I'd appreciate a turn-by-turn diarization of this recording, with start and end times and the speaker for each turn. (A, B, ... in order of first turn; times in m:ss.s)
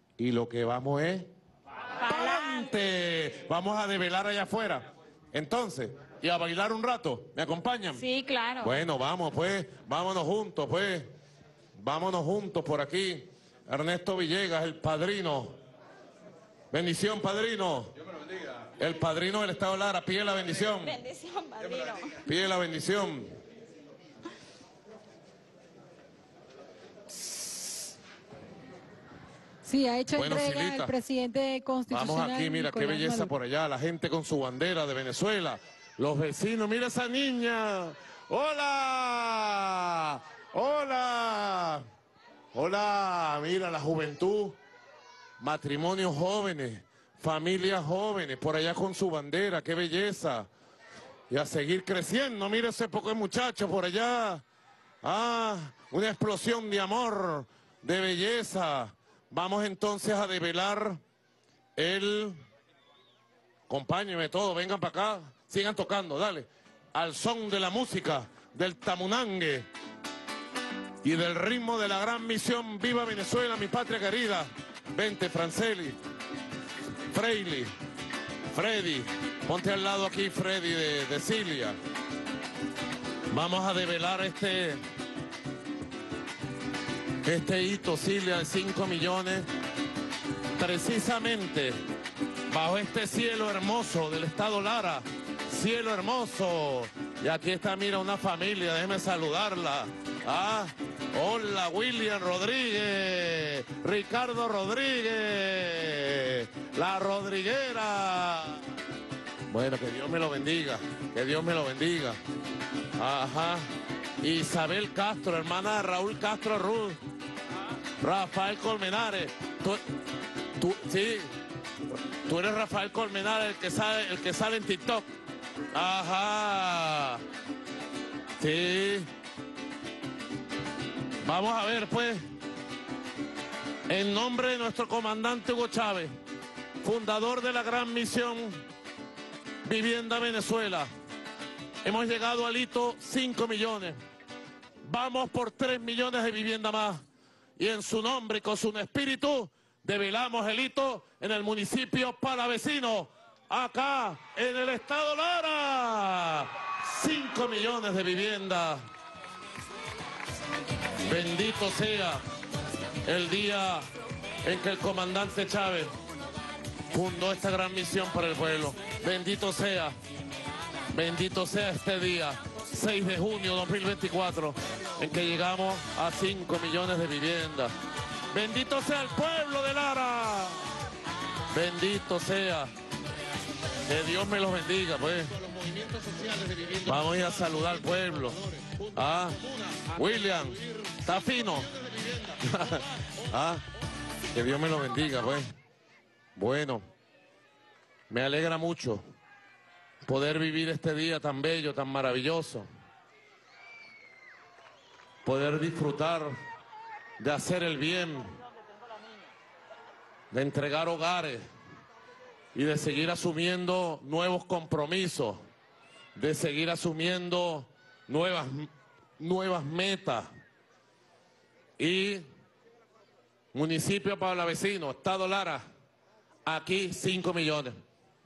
0:00.2-0:01.3 A
0:02.0-0:02.7 B
0:02.0-0:08.0 A
0:07.9-0:08.8 B
0:08.6-0:11.1 A
0:11.8-0:15.6 A
0:16.7-0:17.9 A
0:18.8-0:21.0 A
0:20.8-0:22.2 B
0:22.2-0:23.3 A
0:29.6-0:33.3 C
0:30.1-0:30.9 A
0:31.9-0:41.8 A
0:42.5-0:44.6 A
0:45.4-0:50.5 A
0:51.3-0:54.4 A
0:55.0-1:01.0 A
1:01.8-1:02.4 A
1:03.7-1:09.7 A
1:11.0-1:16.0 A
1:17.1-1:17.7 A
1:18.5-1:21.8 A
1:23.3-1:24.8 A
1:27.2-1:29.5 A
1:30.6-1:31.8 A
1:32.5-1:48.6 A
1:49.5-1:52.2 A
1:53.0-1:53.7 A
1:54.2-1:57.0 A
1:58.0-1:59.8 A
2:00.6-2:01.3 A
2:02.2-2:05.1 A
2:05.7-2:07.2 A
2:08.4-2:09.1 A
2:11.2-2:12.2 A
2:13.9-2:16.1 A
2:16.8-2:18.6 A
2:19.6-2:20.9 A
2:21.8-2:24.0 A
2:24.8-2:27.0 A
2:27.6-2:38.9 A
2:41.0-2:42.2 A
2:43.0-2:43.9 A
2:44.4-2:46.0 A
2:46.9-2:50.0 A
2:50.9-2:57.8 A
2:58.3-3:00.6 A
3:01.5-3:02.7 A
3:03.9-3:13.6 A
3:14.3-3:15.5 A
3:16.4-3:16.8 A
3:18.1-3:19.0 A
3:20.0-3:22.7 A
3:25.2-3:26.4 A
3:27.2-3:28.4 A
3:30.3-3:31.5 A
3:32.5-3:35.4 A
3:36.2-3:40.3 A
3:41.8-3:42.3 A
3:43.5-3:45.6 A
3:46.4-3:47.8 A